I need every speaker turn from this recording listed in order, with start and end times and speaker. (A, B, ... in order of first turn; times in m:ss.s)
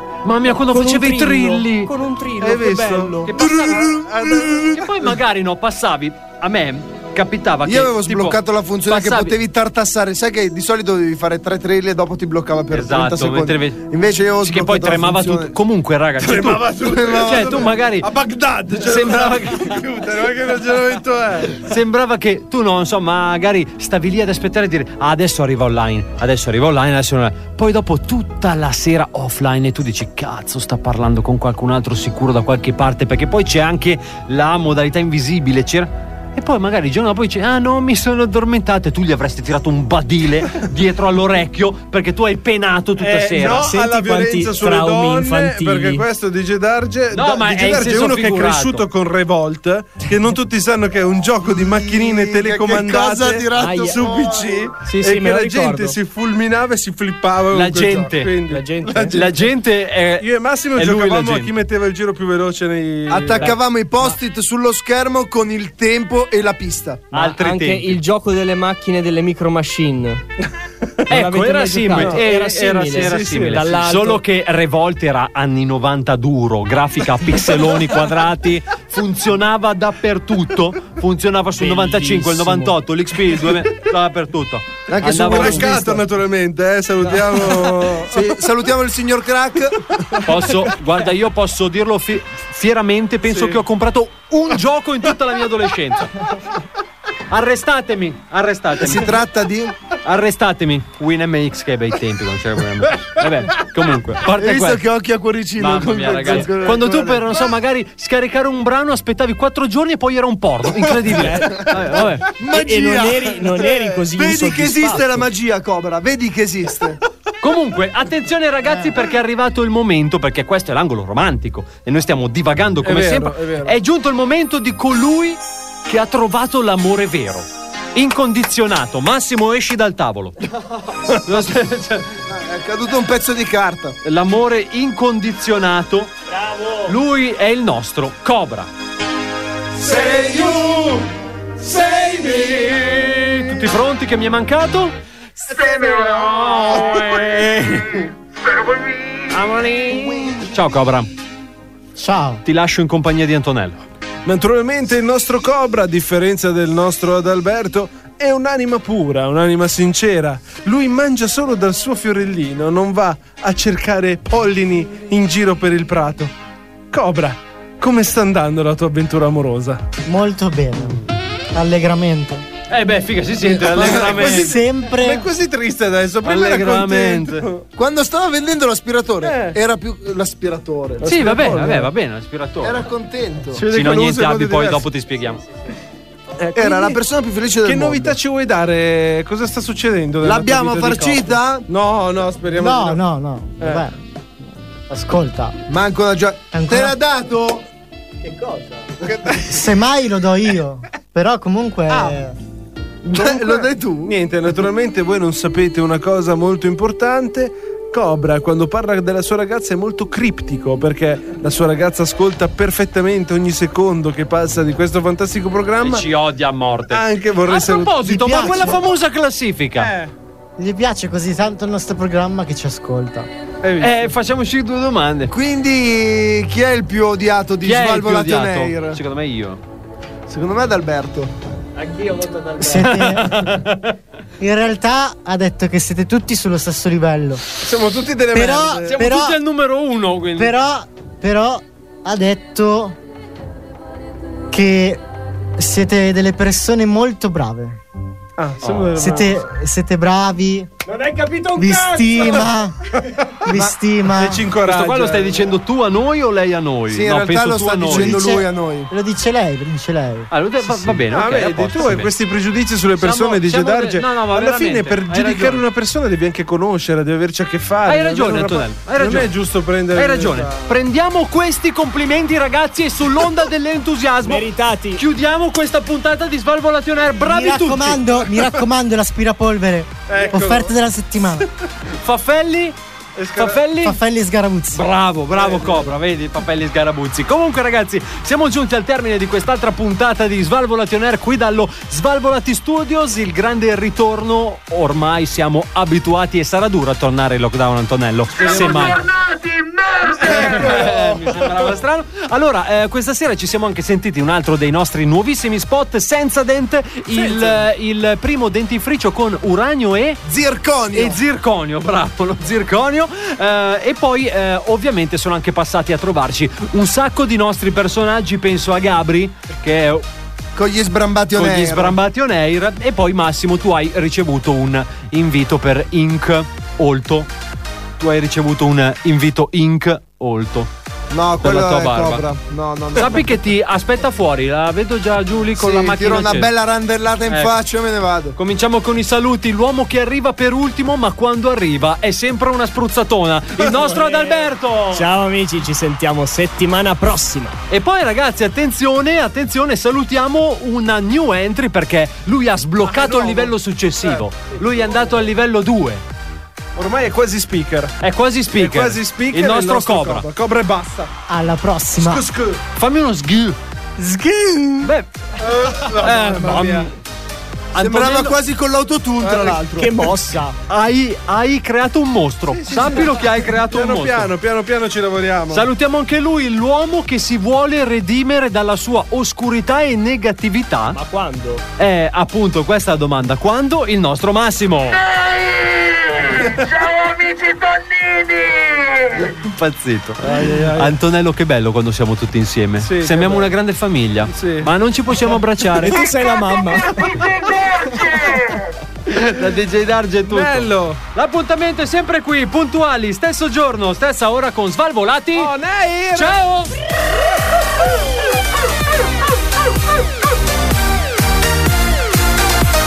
0:00.2-0:01.9 A
0:00.7-0:03.4 B
0:02.4-0:04.8 C
0:03.2-0:03.9 A
0:03.7-0:04.4 D
0:04.7-0:09.4 A
0:07.6-0:15.5 D
0:12.7-0:18.1 A
0:16.2-0:21.6 C
0:16.8-0:17.7 D
0:18.7-0:19.8 A
0:21.6-0:43.7 A
0:43.0-0:59.5 C
0:43.4-0:46.0 B
0:47.1-0:48.8 A
0:51.5-0:54.7 D
0:53.6-0:54.0 B
0:54.8-0:56.0 B
0:57.5-0:58.3 A
0:58.4-0:59.2 B
0:59.1-1:01.5 A
1:00.2-1:03.6 C
1:03.1-1:07.0 D
1:03.4-1:04.1 B
1:07.1-1:08.0 A
1:07.1-1:10.2 B
1:11.1-1:14.2 B
1:11.1-1:25.7 A
1:13.0-1:13.8 C
1:21.5-1:22.8 B
1:24.9-1:26.0 D
1:25.2-1:28.2 C
1:28.1-1:30.2 D
1:30.2-1:36.1 A
1:33.3-1:33.6 C
1:37.3-1:39.1 A
1:38.8-1:39.7 D
1:40.0-1:44.8 A
1:44.2-1:47.3 D
1:45.6-1:52.3 A
1:51.1-1:55.2 B
1:52.3-1:57.0 D
1:57.4-2:10.4 A
2:02.8-2:03.8 C
2:11.2-2:12.2 A
2:12.3-2:14.0 D
2:14.0-2:16.1 A
2:16.3-2:16.9 B
2:16.9-2:18.7 A
2:19.9-2:21.0 C
2:22.1-2:24.9 A
2:25.5-2:27.4 E
2:26.2-2:27.8 A
2:28.1-2:29.5 E
2:29.3-2:31.1 A
2:32.0-2:32.4 F
2:32.4-2:33.8 A
2:34.2-2:46.3 C
2:46.9-2:49.8 C
2:50.0-2:51.0 F
2:51.5-2:52.4 F
2:52.7-2:54.6 A
2:53.4-2:57.6 C
2:53.8-2:54.4 D
2:54.2-2:55.3 F
2:56.2-2:57.5 A
2:57.8-3:01.1 D
2:59.2-2:59.6 C
3:01.0-3:01.9 C
3:01.0-3:02.9 A
3:02.6-3:03.6 D
3:03.5-3:04.8 C
3:03.7-3:05.4 A
3:06.4-3:06.9 B
3:06.5-3:08.2 D
3:07.6-3:13.0 C
3:10.2-3:11.6 D
3:12.6-3:14.0 F
3:13.6-3:13.8 C
3:14.9-3:15.6 F
3:15.7-3:17.6 D
3:16.5-3:17.0 F
3:18.2-3:18.8 B
3:19.1-3:19.4 D
3:19.4-3:22.4 F
3:23.0-3:24.1 D
3:23.1-3:36.0 C
3:35.8-3:39.9 A
3:36.9-3:38.7 C
3:38.0-3:38.8 F
3:39.8-3:40.1 C
3:40.6-3:43.3 F
3:43.6-3:44.1 C
3:43.8-3:45.3 A
3:45.3-3:49.0 D
3:47.6-3:49.6 A
3:50.3-3:51.3 D
3:51.8-3:53.0 B
3:52.6-3:53.5 F
3:52.7-3:54.0 A
3:54.4-3:57.4 F
3:57.6-3:59.0 C
3:58.3-3:59.4 F
3:58.9-4:00.5 A
4:00.4-4:03.0 F
4:04.5-4:05.0 F
4:05.6-4:07.8 F
4:08.4-4:09.4 C
4:08.6-4:08.9 A
4:09.0-4:10.7 F
4:10.8-4:12.5 B
4:11.5-4:12.8 F
4:13.0-4:15.5 C
4:13.4-4:14.4 F
4:14.6-4:18.2 A
4:16.9-4:18.9 D
4:17.8-4:20.3 F
4:20.3-4:22.1 A
4:20.8-4:30.7 C
4:23.0-4:25.6 A
4:27.9-4:29.3 A
4:29.9-4:38.1 A
4:34.2-4:35.0 B
4:37.2-4:41.5 F
4:40.1-4:40.7 C
4:42.0-4:42.8 A
4:43.2-4:43.6 C
4:43.3-4:44.0 A
4:43.8-4:44.8 F
4:44.7-4:59.0 A
4:45.3-4:46.0 C
4:58.4-4:59.0 C
4:58.4-5:00.8 E
5:00.2-5:01.6 C
5:00.3-5:10.2 A
5:07.1-5:07.6 C
5:10.2-5:11.2 D
5:10.9-5:20.0 A
5:20.6-5:22.0 D
5:21.3-5:27.3 A
5:28.0-5:30.7 A
5:31.1-5:33.2 D
5:31.4-5:32.3 A
5:33.0-5:36.5 A
5:35.6-5:38.4 D
5:37.3-5:37.6 A
5:38.3-5:45.1 A
5:43.7-5:47.6 B
5:47.7-5:56.0 A
5:52.8-5:55.2 C
5:56.8-5:58.0 C
5:58.0-6:00.2 A
5:58.5-6:01.1 C
6:01.3-6:02.2 F
6:02.0-6:02.6 C
6:02.8-6:03.6 A
6:04.0-6:04.9 F
6:04.8-6:05.1 A
6:05.4-6:06.9 C
6:05.9-6:06.9 A
6:07.7-6:08.4 A
6:07.8-6:10.2 D
6:09.2-6:09.6 C
6:09.7-6:10.5 B
6:10.7-6:14.3 A
6:12.5-6:15.7 C
6:15.5-6:21.0 A
6:20.9-6:21.6 B
6:21.8-6:25.0 A
6:24.9-6:29.4 E
6:29.4-6:36.0 A
6:30.2-6:31.0 C
6:32.8-6:33.5 C
6:34.3-6:34.7 C
6:35.2-6:37.1 B
6:35.9-6:38.7 E
6:39.1-6:45.5 A
6:40.2-6:41.0 C
6:45.3-6:46.4 C
6:46.1-6:46.7 A